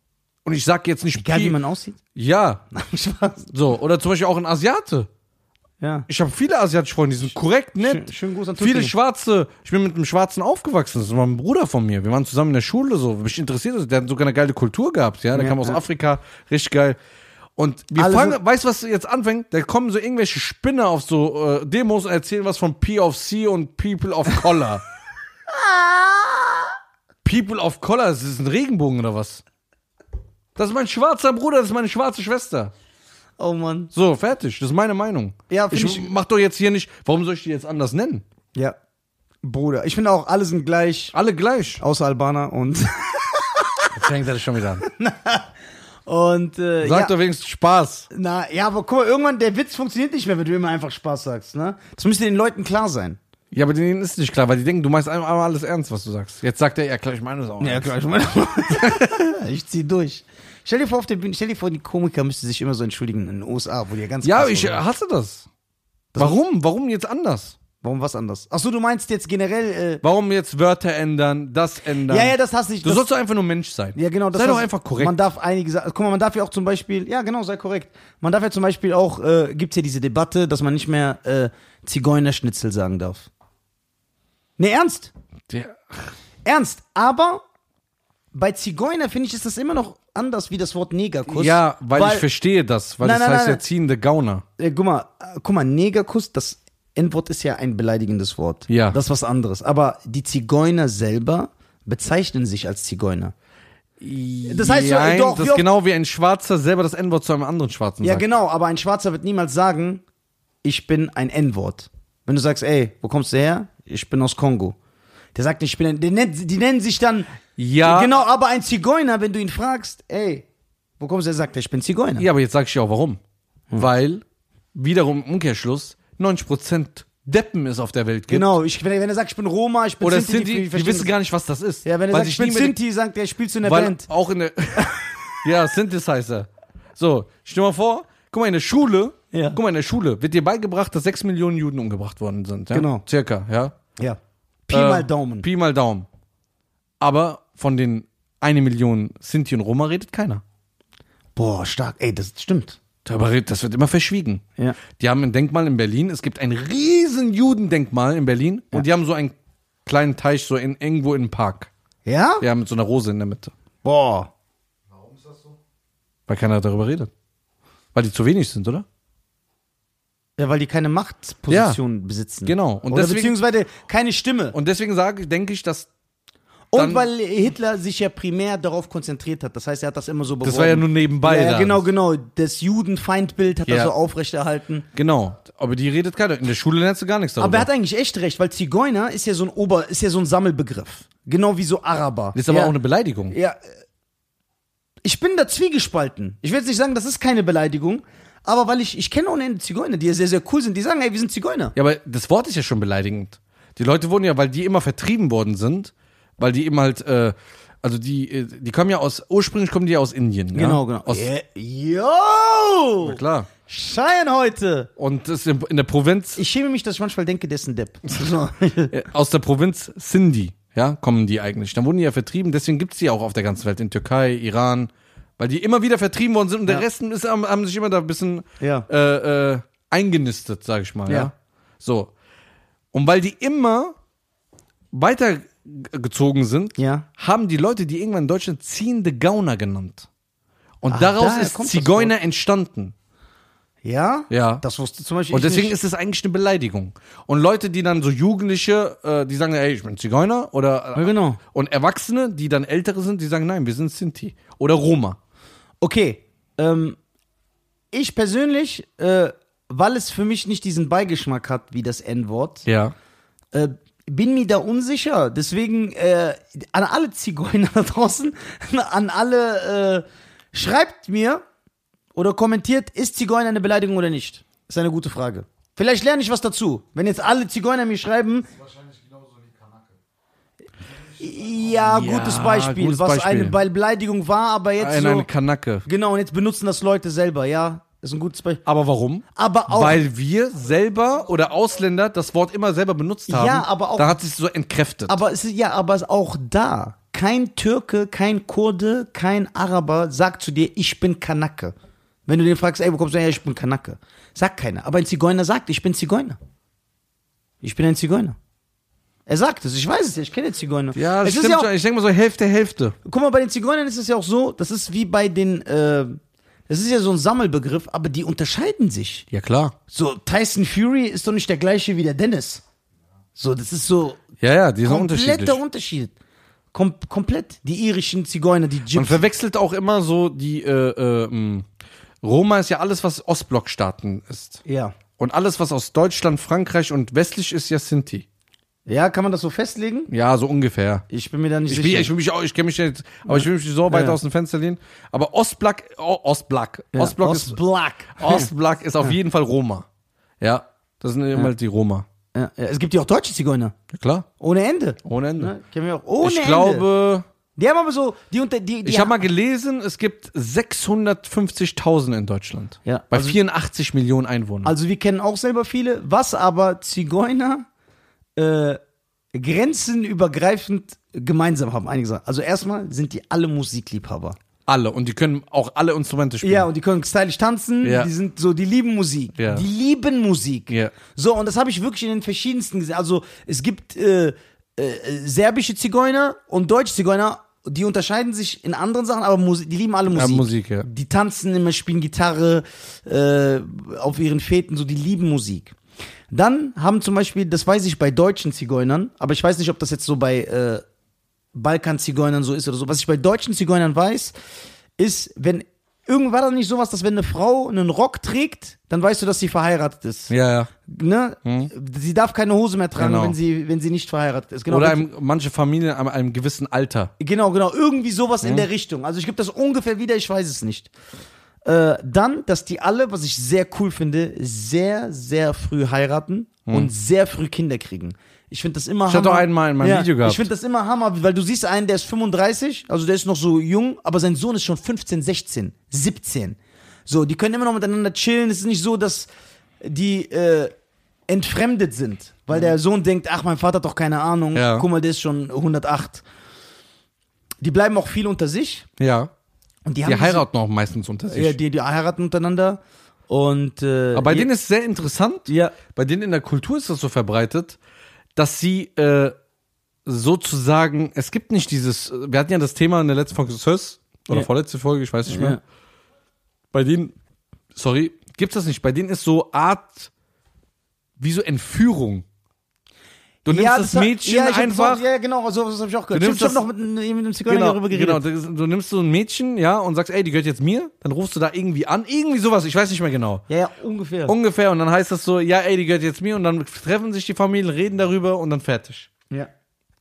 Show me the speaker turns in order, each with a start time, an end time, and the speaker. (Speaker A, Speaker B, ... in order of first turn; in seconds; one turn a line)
Speaker A: 0.4-1.6
Speaker B: 1.2-2.0
Speaker A: 2.1-2.6
Speaker B: 2.7-3.5
Speaker A: 3.5-5.1
Speaker B: 5.8-6.1
Speaker A: 6.1-17.0
Speaker B: 7.8-8.9
Speaker B: 15.3-15.8
Speaker A: 17.6-24.8
Speaker B: 17.9-18.4
Speaker B: 25.5-26.7
Speaker A: 27.2-29.4
Speaker A: 30.6-32.7
Speaker B: 33.4-33.9
Speaker A: 33.9-38.2
Speaker B: 35.5-36.1
Speaker B: 39.4-41.1
Speaker A: 41.1-41.8
Speaker B: 41.8-43.9
Speaker A: 43.9-44.9
Speaker B: 44.8-45.5
Speaker B: 46.0-47.1
Speaker A: 46.8-48.1
Speaker B: 48.1-53.2
Speaker A: 53.5-57.9
Speaker B: 57.6-64.8
Speaker A: 58.8-59.1
Speaker A: 64.2-65.5
Speaker A: 66.2-67.6
Speaker B: 67.8-70.0
Speaker A: 70.0-75.2
Speaker B: 72.1-73.1
Speaker B: 73.9-83.3
Speaker B: 84.6-85.1
Speaker A: 85.5-86.1
Speaker B: 86.4-87.4
Speaker B: 88.3-92.3
Speaker A: 91.3-94.4
Speaker B: 93.0-93.6
Speaker B: 94.6-103.3
Speaker A: 98.7-99.0
Speaker A: 104.0-108.3
Speaker B: 104.5-105.7
Speaker B: 108.0-110.0
Speaker B: 110.6-114.8
Speaker B: 115.3-120.5
Speaker A: 117.6-118.1
Speaker B: 121.0-122.2
Speaker A: 122.2-123.2
Speaker A: 123.7-124.2
Speaker A: 124.7-128.5
Speaker B: 128.3-131.1
Speaker A: 130.0-132.8
Speaker B: 131.8-134.1
Speaker A: 133.6-143.8
Speaker B: 139.3-139.6
Speaker B: 142.7-143.0
Speaker B: 144.0-145.4
Speaker A: 144.7-146.1
Speaker A: 147.0-150.4
Speaker B: 151.3-152.8
Speaker A: 153.0-154.4
Speaker A: 154.9-161.7
Speaker B: 162.1-162.4
Speaker A: 162.4-163.5
Speaker B: 163.8-164.3
Speaker C: 164.9-165.6
Speaker A: 166.3-167.1
Speaker A: 167.9-168.8
Speaker B: 170.4-174.6
Speaker A: 171.5-171.8
Speaker A: 172.4-173.3
Speaker A: 174.5-175.9
Speaker B: 176.7-184.8
Speaker A: 176.7-177.1
Speaker A: 180.4-181.8
Speaker A: 183.7-183.9
Speaker A: 184.9-187.7
Speaker B: 187.4-192.7
Speaker A: 192.3-193.3
Speaker B: 193.3-193.6
Speaker B: 195.0-201.7
Speaker A: 201.8-211.3
Speaker B: 210.5-214.9
Speaker A: 213.0-213.5
Speaker A: 215.0-216.4
Speaker B: 216.3-218.9
Speaker A: 218.9-232.1
Speaker B: 228.6-228.9
Speaker A: 232.9-233.9
Speaker A: 234.9-240.1
Speaker B: 236.8-237.1
Speaker A: 240.8-242.9
Speaker B: 240.9-242.1
Speaker B: 243.8-245.7
Speaker A: 244.3-244.6
Speaker A: 245.3-255.2
Speaker B: 250.9-251.4
Speaker B: 255.8-257.0
Speaker B: 257.9-262.6
Speaker A: 262.6-262.9
Speaker B: 263.5-271.4
Speaker B: 272.1-278.5
Speaker C: 278.5-280.0
Speaker C: 280.8-282.0
Speaker B: 281.2-285.3
Speaker A: 281.9-283.6
Speaker A: 284.8-285.8
Speaker B: 285.8-288.6
Speaker A: 288.6-295.2
Speaker B: 289.3-290.0
Speaker B: 293.3-294.1
Speaker B: 295.1-301.7
Speaker B: 302.3-306.4
Speaker B: 307.6-308.4
Speaker B: 309.3-311.7
Speaker A: 310.9-312.9
Speaker B: 313.0-319.3
Speaker A: 319.3-319.7
Speaker B: 319.9-322.6
Speaker B: 323.4-324.2
Speaker A: 324.4-325.6
Speaker B: 324.8-326.1
Speaker B: 326.7-329.2
Speaker A: 328.9-331.7
Speaker A: 332.2-334.6
Speaker B: 334.6-334.9
Speaker A: 335.2-338.2
Speaker B: 338.9-340.1
Speaker A: 340.1-341.0
Speaker B: 341.1-342.1
Speaker A: 341.7-347.6
Speaker B: 343.2-344.2
Speaker B: 346.9-348.5
Speaker A: 348.1-349.9
Speaker A: 350.4-352.1
Speaker B: 352.3-353.8
Speaker A: 353.9-354.3
Speaker B: 354.4-356.9
Speaker A: 355.0-355.5
Speaker A: 356.2-357.2
Speaker B: 357.6-359.2
Speaker A: 358.8-364.7
Speaker B: 362.8-363.4
Speaker B: 364.6-367.6
Speaker B: 368.4-368.8
Speaker B: 369.3-374.4
Speaker A: 374.6-376.7
Speaker B: 376.4-395.7
Speaker A: 377.8-378.1
Speaker A: 379.4-379.6
Speaker A: 380.7-380.9
Speaker A: 390.1-390.9
Speaker B: 396.3-400.8
Speaker B: 401.5-404.3
Speaker B: 405.0-410.3
Speaker A: 410.3-410.7
Speaker B: 410.8-415.1
Speaker A: 411.4-411.7
Speaker A: 413.0-413.4
Speaker A: 414.7-417.1
Speaker B: 417.2-420.9
Speaker A: 418.4-418.7
Speaker B: 421.6-439.3
Speaker A: 429.1-430.5
Speaker B: 439.8-440.7
Speaker B: 441.3-446.2
Speaker A: 444.5-444.9
Speaker B: 447.6-448.9
Speaker A: 449.0-449.3
Speaker B: 449.9-450.4
Speaker A: 450.0-451.6
Speaker B: 451.3-454.5
Speaker A: 454.1-457.8
Speaker B: 455.5-455.8
Speaker A: 458.4-459.3
Speaker A: 460.1-465.6
Speaker B: 465.3-465.6
Speaker A: 466.7-467.1
Speaker A: 467.7-470.1
Speaker A: 471.2-472.2
Speaker B: 473.4-478.2
Speaker A: 473.5-475.0
Speaker A: 476.1-476.6
Speaker A: 477.5-483.4
Speaker B: 483.5-484.4
Speaker A: 484.3-489.1